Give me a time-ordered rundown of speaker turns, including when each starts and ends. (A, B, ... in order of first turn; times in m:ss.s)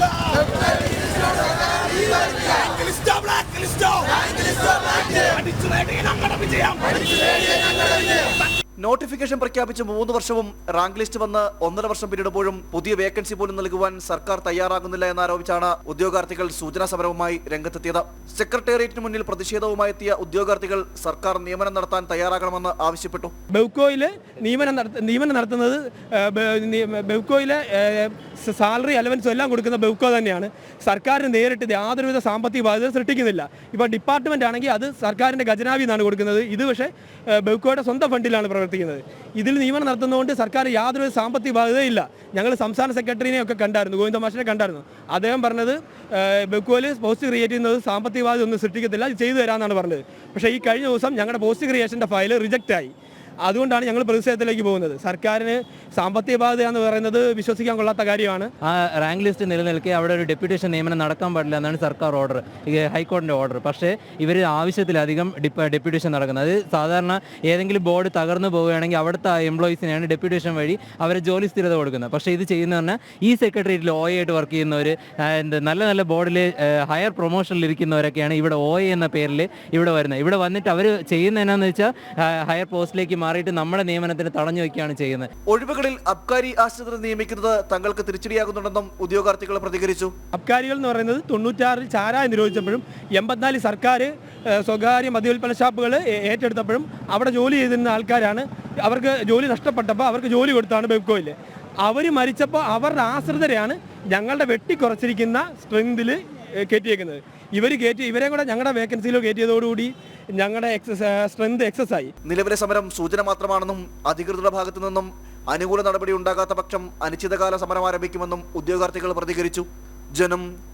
0:02.8-0:04.1 A
0:05.2-0:06.9 A
0:08.8-0:23.3 A
0:23.5-0:58.5 B
0:58.7-1:25.3 C
1:25.5-1:30.1 A
1:30.3-1:52.1 B
1:52.2-2:00.5 A